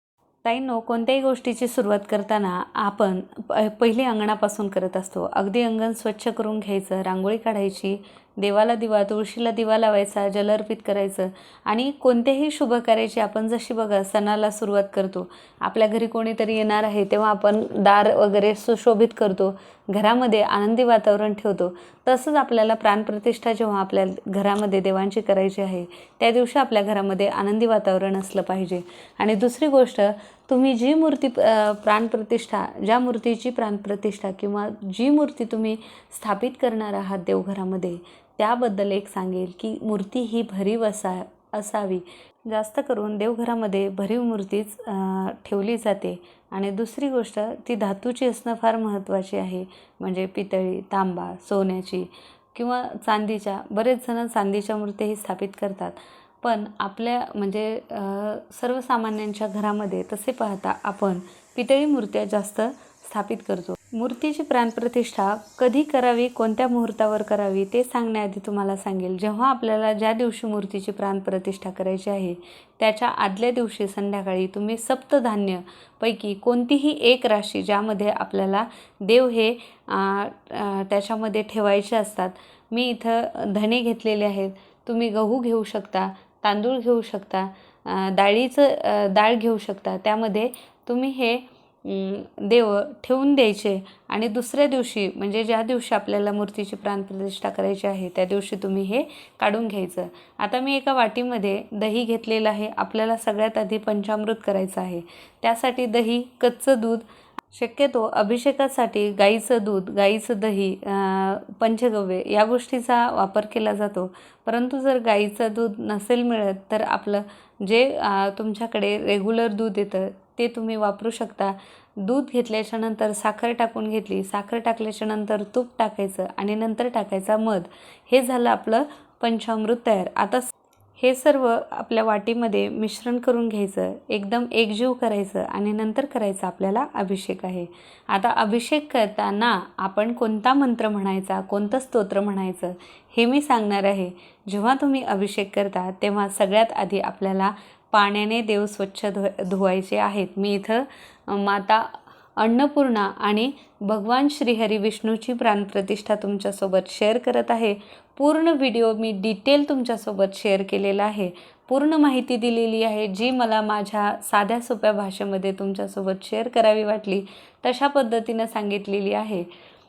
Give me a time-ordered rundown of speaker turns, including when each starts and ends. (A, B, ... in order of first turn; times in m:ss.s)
0:00.4-2:49.5 A